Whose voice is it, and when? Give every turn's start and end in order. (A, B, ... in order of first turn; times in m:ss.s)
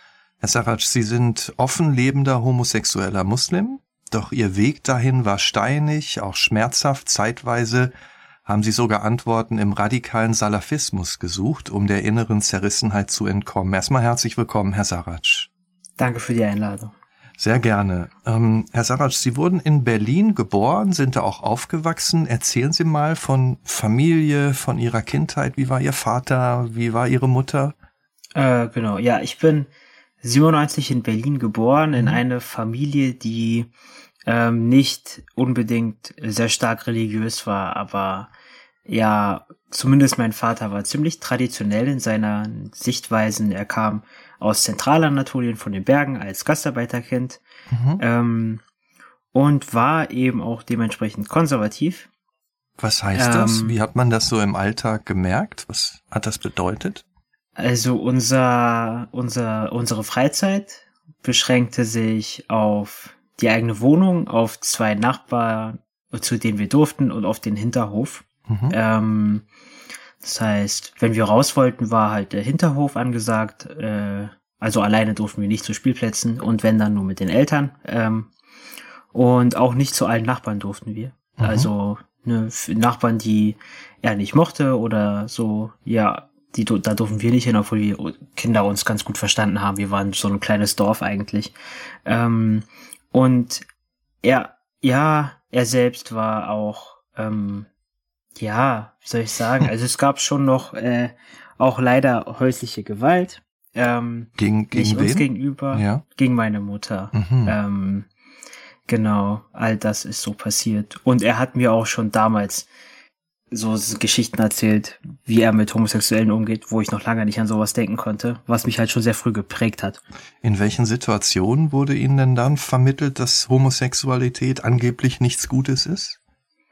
0:00.4-0:07.9 A
0:08.5-0:15.5 A
0:16.0-0:16.9 B
0:17.4-0:27.7 A
0:28.4-0:29.7 B
0:30.2-0:33.7 B
0:34.3-0:38.3 B
0:38.9-0:47.4 B
0:47.7-0:48.0 A
0:48.0-0:48.6 B
0:49.3-0:52.1 B
0:52.8-0:57.0 A
0:53.2-0:53.8 B
0:57.6-1:09.5 B
1:08.5-1:08.8 A
1:10.2-1:18.3 B
1:19.1-1:31.5 B
1:21.4-1:21.7 A
1:32.1-1:33.6 B
1:34.2-1:37.7 B
1:38.4-1:48.1 B
1:44.4-1:46.0 A
1:47.1-1:47.6 A
1:48.9-1:52.7 B
1:53.5-2:00.0 B
2:00.4-2:06.2 A